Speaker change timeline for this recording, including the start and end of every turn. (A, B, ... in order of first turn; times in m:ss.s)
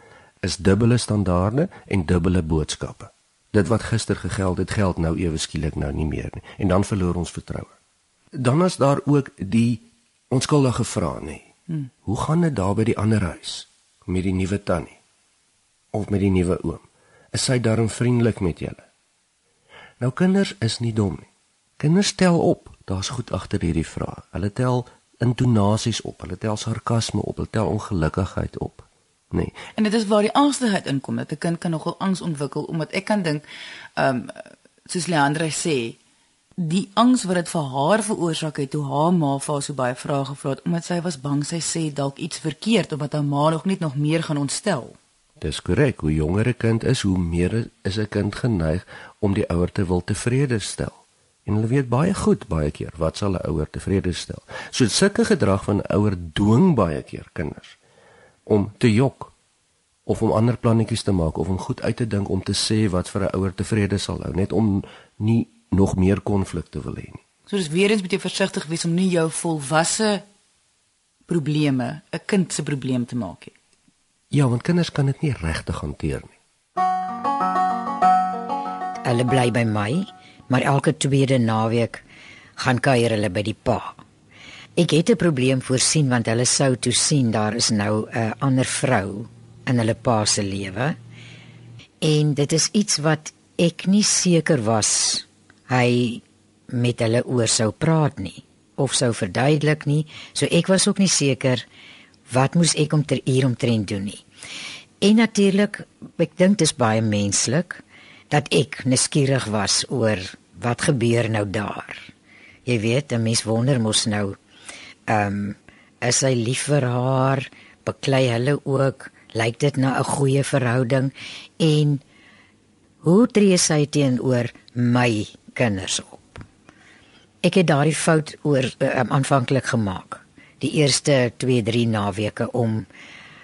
0:00.4-0:07.7 A
0:08.4-0:11.5 A
0:12.0-0:15.0 A
0:15.9-0:18.8 A
0:20.0-0:21.3 A
0:21.8-0:29.6 A
0:29.8-0:33.4 B
0:34.0-0:36.0 B
0:36.6-0:45.0 B
0:45.4-0:57.8 A
0:58.5-0:59.3 A
1:00.1-1:07.2 A
1:07.5-1:10.2 B
1:11.3-1:13.5 B
1:14.3-1:16.4 A
1:19.0-1:22.0 C
1:22.6-1:24.0 C
1:24.8-1:31.0 C
1:32.0-1:41.6 C
1:42.3-1:44.2 C
1:45.0-1:52.1 C
1:52.7-1:54.4 C
1:55.1-2:02.0 C
2:03.0-2:06.4 C
2:07.4-2:12.9 C